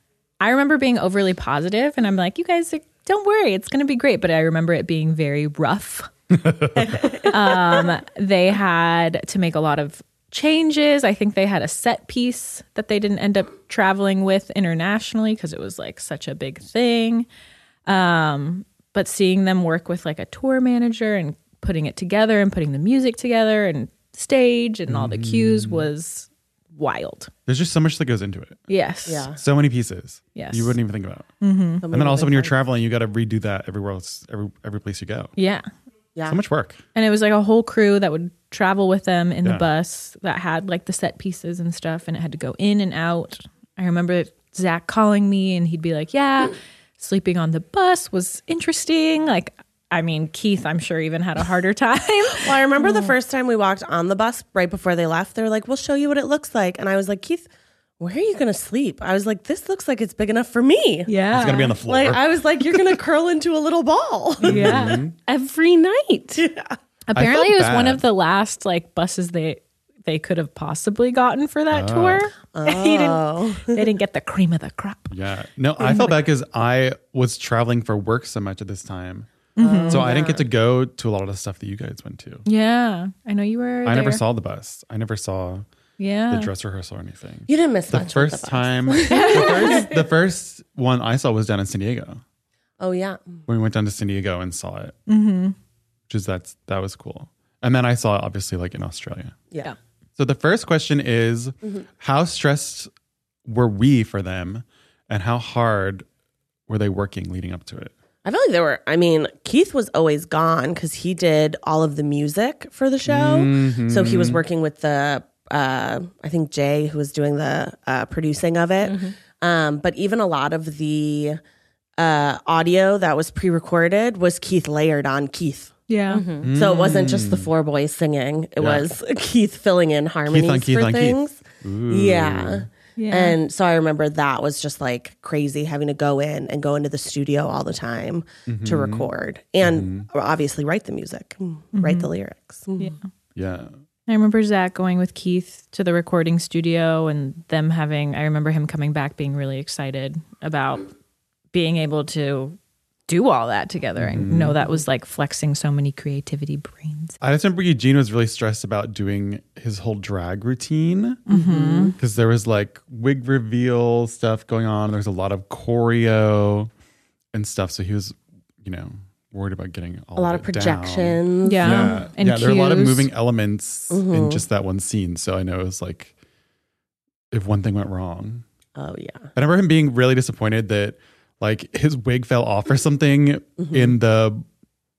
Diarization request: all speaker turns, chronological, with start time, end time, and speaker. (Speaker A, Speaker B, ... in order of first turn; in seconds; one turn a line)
Speaker A: 0.4-6.1
Speaker B: 6.3-7.3
Speaker A: 6.8-17.3
Speaker A: 17.9-27.3
Speaker B: 24.9-25.9
Speaker B: 27.4-28.6
Speaker A: 28.7-29.3
Speaker C: 29.1-29.4
Speaker B: 29.4-31.3
Speaker A: 30.3-30.8
Speaker A: 31.4-31.8
Speaker C: 31.8-32.5
Speaker B: 31.9-35.3
Speaker A: 35.4-35.7
Speaker C: 36.1-36.4
Speaker B: 36.3-36.8
Speaker A: 36.9-53.1
Speaker C: 52.3-57.5
Speaker C: 58.0-61.1
Speaker A: 61.1-61.8
Speaker B: 61.3-62.2
Speaker C: 61.8-65.0
Speaker A: 64.4-65.0
Speaker B: 64.5-65.1
Speaker D: 65.3-66.5
Speaker C: 66.3-66.7
Speaker A: 67.1-75.1
Speaker B: 67.1-68.0
Speaker B: 71.7-72.2
Speaker C: 72.5-73.9
Speaker B: 75.1-79.3
Speaker A: 75.8-76.2
Speaker A: 79.5-80.1
Speaker C: 79.6-80.5
Speaker B: 79.9-82.4
Speaker A: 82.4-84.2
Speaker B: 83.8-85.7
Speaker A: 86.0-86.5
Speaker B: 86.3-92.2
Speaker C: 87.5-90.1
Speaker A: 89.1-89.8
Speaker C: 92.8-93.4
Speaker B: 93.5-95.0
Speaker A: 95.1-95.5
Speaker B: 96.1-99.3
Speaker B: 100.2-102.9
Speaker B: 103.5-106.0
Speaker B: 106.7-107.9
Speaker C: 108.2-121.4
Speaker B: 113.0-114.4
Speaker D: 118.8-119.1
Speaker C: 122.0-125.7
Speaker A: 125.9-126.2
Speaker D: 126.1-126.5
Speaker B: 126.4-127.5
Speaker C: 126.5-142.9
Speaker B: 128.6-128.8
Speaker B: 130.3-132.7
Speaker A: 132.9-133.4
Speaker B: 138.5-139.1
Speaker B: 139.6-140.1
Speaker A: 141.7-142.1
Speaker B: 143.3-143.7
Speaker A: 144.1-150.9
Speaker A: 151.5-152.6
Speaker A: 153.1-157.2
Speaker B: 154.0-154.6
Speaker B: 157.2-161.2
Speaker A: 161.3-161.9
Speaker C: 161.3-162.0
Speaker B: 162.0-166.7
Speaker B: 167.3-176.1
Speaker C: 170.2-172.0
Speaker A: 171.4-173.1
Speaker C: 173.9-174.4
Speaker B: 177.3-178.4
Speaker C: 178.7-179.3
Speaker B: 179.3-184.4
Speaker C: 183.6-184.0